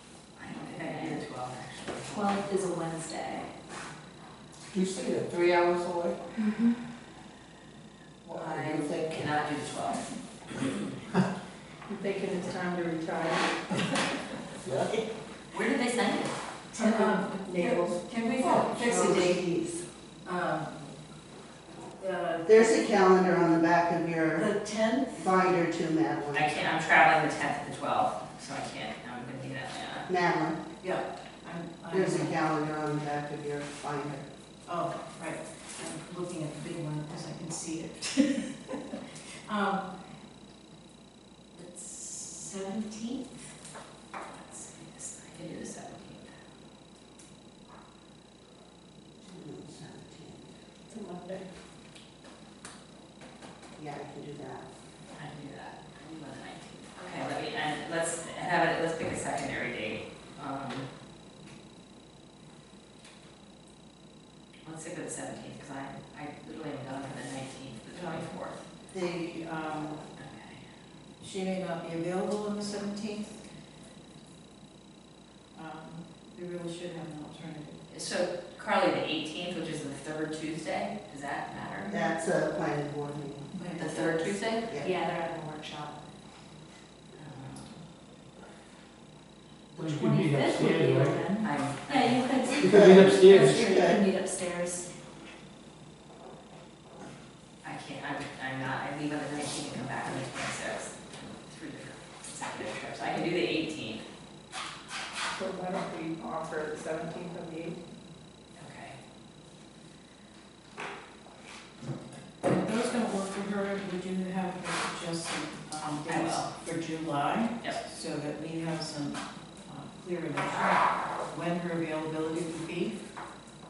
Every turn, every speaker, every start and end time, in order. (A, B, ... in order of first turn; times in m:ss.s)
0:00.4-0:02.4 A
0:02.1-0:03.5 B
0:04.7-0:06.2 C
0:08.3-0:10.0 A
0:08.4-0:09.0 C
0:11.9-0:13.6 D
0:14.6-0:14.9 C
0:15.5-0:16.3 A
0:16.7-0:19.4 E
0:16.8-0:18.6 D
0:18.1-0:18.8 A
0:18.7-0:19.8 F
0:20.2-0:20.7 E
0:22.0-0:22.6 E
0:22.4-0:24.6 F
0:24.4-0:25.2 E
0:25.1-0:26.5 F
0:26.3-0:30.1 A
0:30.1-0:30.6 F
0:30.8-0:32.4 E
0:31.9-0:34.2 F
0:34.7-0:39.9 E
0:41.5-0:43.3 E
0:44.3-0:46.3 A
0:49.2-0:50.5 F
0:50.9-0:51.5 D
0:53.8-0:54.6 F
0:55.1-1:00.8 A
1:04.6-1:08.6 A
1:07.9-1:08.3 E
1:08.9-1:10.0 E
1:10.2-1:10.6 A
1:11.2-1:13.4 E
1:15.5-1:17.8 E
1:17.9-1:21.9 A
1:21.9-1:23.5 F
1:23.5-1:26.0 B
1:23.8-1:24.7 A
1:27.2-1:27.7 A
1:29.7-1:31.4 C
1:29.8-1:34.9 B
1:31.4-1:32.2 A
1:32.5-1:33.8 C
1:32.6-1:34.0 F
1:37.6-1:44.0 A
1:45.3-1:47.8 D
1:48.6-1:49.0 A
1:52.4-2:03.0 E
1:56.1-1:56.5 A